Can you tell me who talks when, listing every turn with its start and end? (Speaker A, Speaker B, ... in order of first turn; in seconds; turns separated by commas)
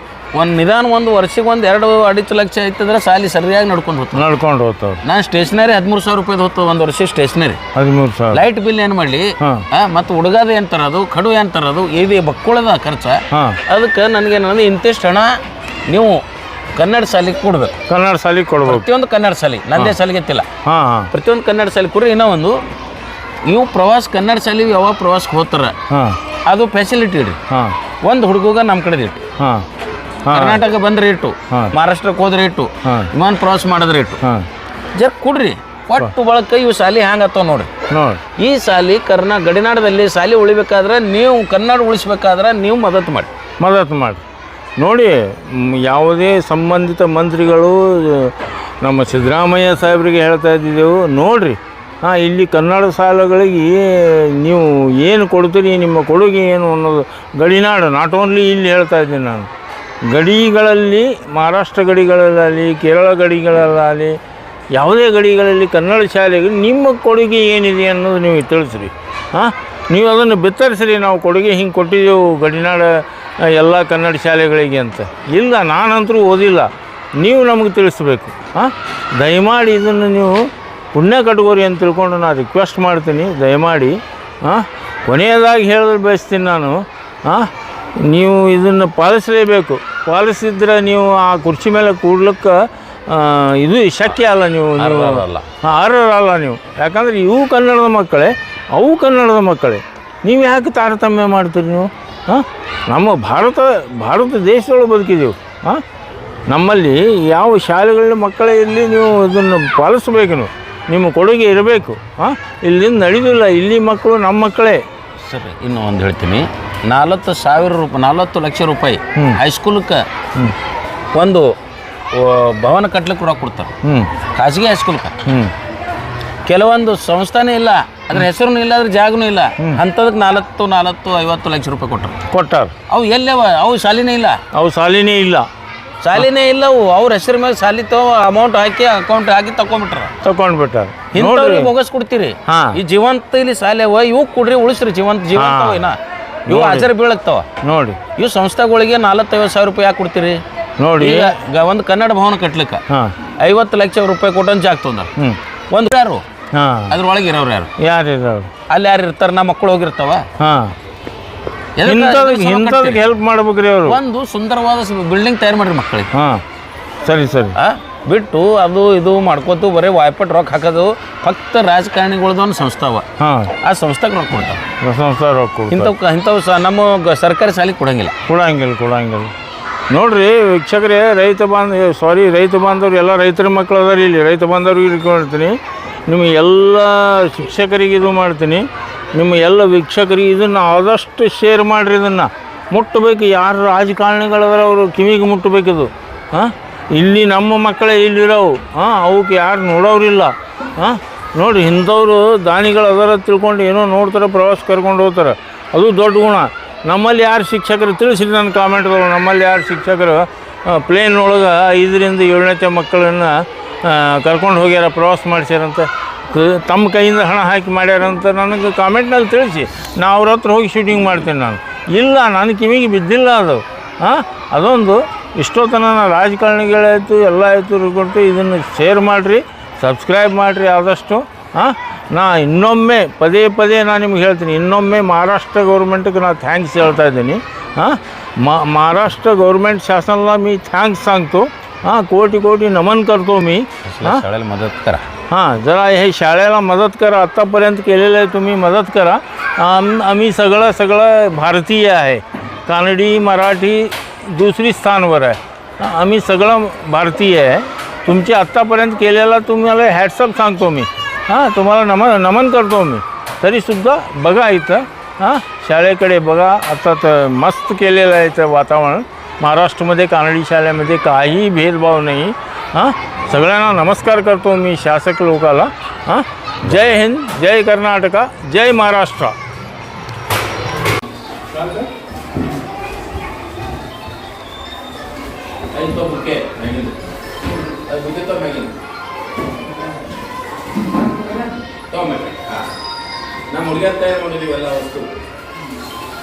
Speaker A: 0.3-4.2, Speaker B: 4.1-5.0, Speaker A: 5.0-7.6, Speaker B: 7.7-8.4, Speaker A: 8.3-16.2, Speaker B: 9.4-9.6, Speaker B: 13.3-13.6, Speaker A: 16.8-17.8, Speaker B: 17.9-18.9, Speaker A: 18.6-20.5, Speaker B: 20.6-21.1, Speaker A: 21.1-22.6, Speaker A: 23.4-25.7, Speaker B: 25.9-26.2, Speaker A: 26.4-27.4, Speaker B: 27.5-27.8, Speaker A: 28.0-29.3, Speaker B: 29.4-29.6, Speaker B: 30.2-30.6, Speaker A: 30.3-34.2, Speaker B: 32.8-33.1, Speaker A: 34.9-37.7, Speaker B: 37.9-38.2, Speaker A: 38.4-43.3, Speaker B: 43.6-44.2, Speaker B: 44.8-59.5, Speaker B: 60.1-64.2, Speaker B: 64.7-105.8, Speaker A: 94.8-95.5, Speaker B: 106.5-114.8, Speaker A: 115.2-120.0, Speaker B: 119.2-119.4, Speaker A: 121.1-121.5, Speaker A: 122.1-125.2, Speaker B: 123.8-124.1, Speaker B: 125.2-125.5, Speaker A: 126.5-132.2, Speaker B: 132.3-132.7, Speaker A: 132.9-134.4, Speaker B: 134.5-135.4, Speaker A: 136.0-140.1, Speaker B: 140.2-141.7, Speaker A: 141.1-147.5, Speaker B: 142.5-142.8, Speaker B: 145.3-145.9, Speaker B: 146.5-146.9, Speaker B: 147.6-148.0, Speaker A: 148.2-150.4, Speaker B: 150.8-151.3, Speaker A: 151.0-152.8, Speaker B: 152.9-153.1, Speaker A: 153.4-155.1, Speaker A: 155.7-156.2, Speaker B: 156.5-157.0, Speaker A: 156.9-157.7, Speaker B: 157.8-158.5, Speaker A: 158.7-160.2, Speaker B: 160.4-160.7, Speaker A: 161.8-163.0, Speaker B: 161.8-164.0, Speaker A: 163.8-166.1, Speaker B: 166.1-166.4, Speaker B: 167.0-167.6, Speaker A: 167.5-173.1, Speaker B: 173.2-173.5, Speaker A: 173.6-174.6, Speaker B: 174.8-175.9, Speaker A: 175.7-178.1, Speaker B: 178.3-179.3, Speaker B: 179.9-244.2, Speaker A: 243.8-245.1, Speaker B: 245.3-279.4, Speaker A: 281.5-281.9, Speaker A: 285.7-287.0, Speaker A: 287.9-288.8, Speaker A: 290.9-292.7, Speaker A: 293.5-295.1